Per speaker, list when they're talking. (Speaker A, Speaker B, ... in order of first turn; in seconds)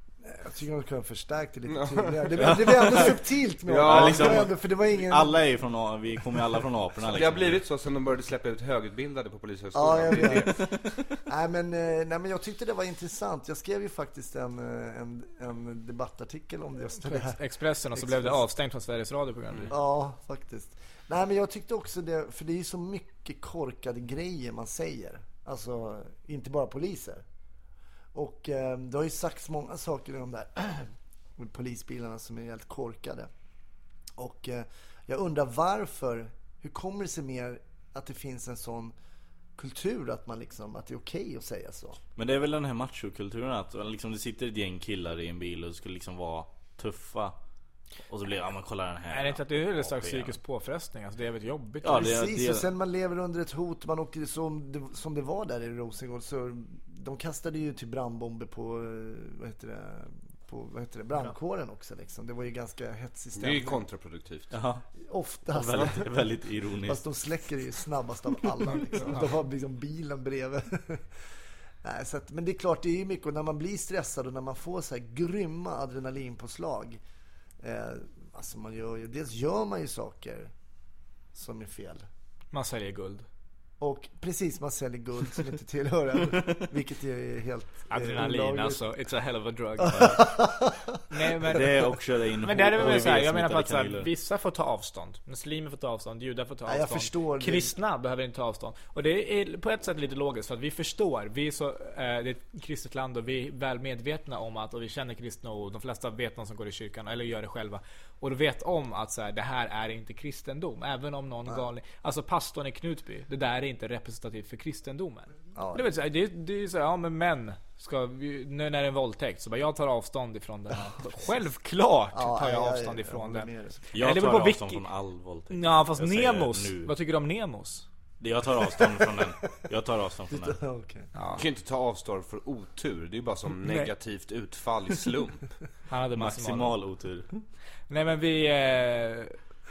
Speaker A: 0.2-5.4, 9.7-10.7, 11.2-18.4, 19.7-27.2, 28.1-33.3, 34.2-38.9, 39.6-42.0, 51.9-63.8, 65.0-66.1, 66.8-71.1, 71.8-77.0, 77.6-80.5, 81.3-82.1, 83.8-88.8, 89.8-91.0, 96.7-97.7, 115.5-115.9, 122.1-123.9, 128.9-129.2, 130.3-131.1
Speaker B: 1.7-3.1, 3.7-4.5, 7.1-10.5, 63.4-64.5, 131.3-135.4
Speaker C: 2.4-3.2, 3.8-7.6, 10.3-10.8, 42.1-47.3, 48.1-50.4, 51.8-52.6, 64.5-64.8, 65.5-67.0, 86.3-86.6, 91.5-94.1, 123.9-126.9, 128.2-130.6, 136.1-137.4
Speaker D: 17.0-19.7, 49.1-52.1, 82.5-83.3, 87.9-90.2, 91.1-91.8, 92.4-124.9, 125.5-127.8, 131.1-131.4, 135.9-136.8, 137.9-139.4